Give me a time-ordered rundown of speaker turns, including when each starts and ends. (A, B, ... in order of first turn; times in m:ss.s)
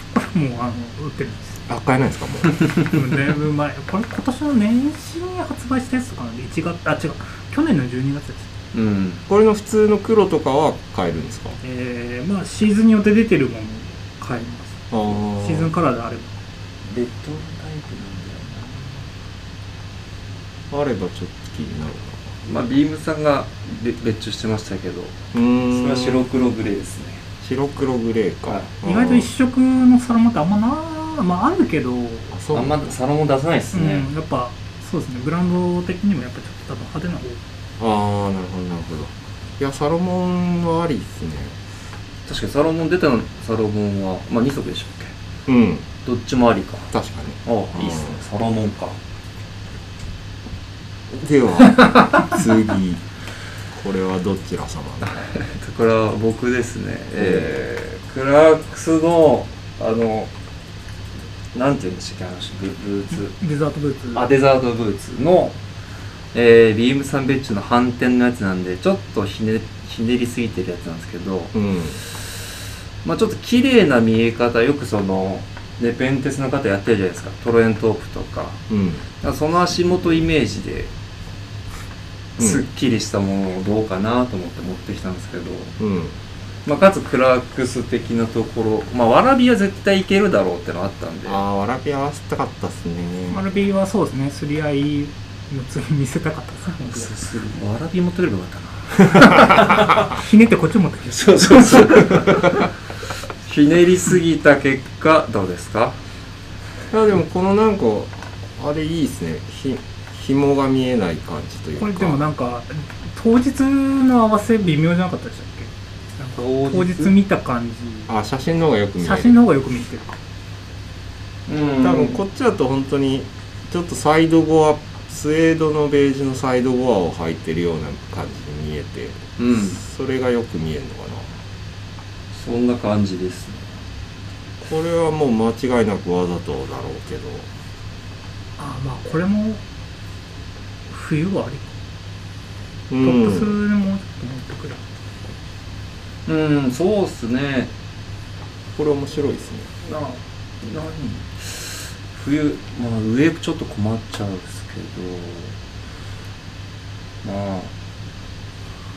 0:00.2-0:01.6 A
0:01.7-0:03.0 B
0:02.6-0:08.5 A
0:08.7-0:09.2 C
0:09.3-0:11.6 B
0:11.6-0:16.3 A
0:14.9-0:15.7 B
0:16.8-0:19.1 C
0:20.7-0:22.2 B
0:22.4-0:27.2 C
0:25.3-0:26.3 B
0:27.4-0:29.3 B
0:28.8-0:32.3 A
0:32.3-0:32.9 B
0:32.5-0:34.1 C
0:33.7-0:37.4 A
0:37.8-0:41.6 B
0:42.3-0:45.2 C
0:45.5-0:45.9 B
0:46.0-0:46.9 C
0:46.9-0:48.2 B
0:47.4-0:49.0 C
0:51.1-0:53.0 B
0:53.7-0:55.3 B
0:55.3-1:00.3 C
0:57.2-0:57.5 B
1:01.5-1:03.4 C
1:03.3-1:04.3 A
1:04.1-1:05.6 C
1:06.3-1:12.4 C
1:11.5-1:12.0 B
1:13.0-1:18.6 C
1:18.7-1:19.1 B
1:19.2-1:20.9 C
1:22.4-1:22.6 B
1:22.4-1:25.8 C
1:25.8-1:26.2 B
1:26.7-1:31.4 C
1:31.3-1:33.4 B
1:33.3-1:37.2 A
1:36.9-1:40.0 C
1:39.3-1:42.2 A
1:41.1-1:42.7 C
1:43.4-1:46.0 C
1:46.9-1:52.2 B
1:51.8-1:58.1 A
1:56.4-1:57.1 C
1:58.1-1:59.4 B
1:59.0-2:00.2 A
2:01.5-2:02.2 C
2:01.8-2:11.4 B
2:09.4-2:09.8 C
2:12.3-2:13.7 C
2:14.6-2:17.5 B
2:18.6-2:19.6 A
2:20.9-2:21.8 A
2:22.9-2:23.6 B
2:23.0-2:24.8 A
2:26.3-2:27.7 C
2:28.8-2:29.7 B
2:29.9-2:35.6 C
2:37.2-2:37.7 C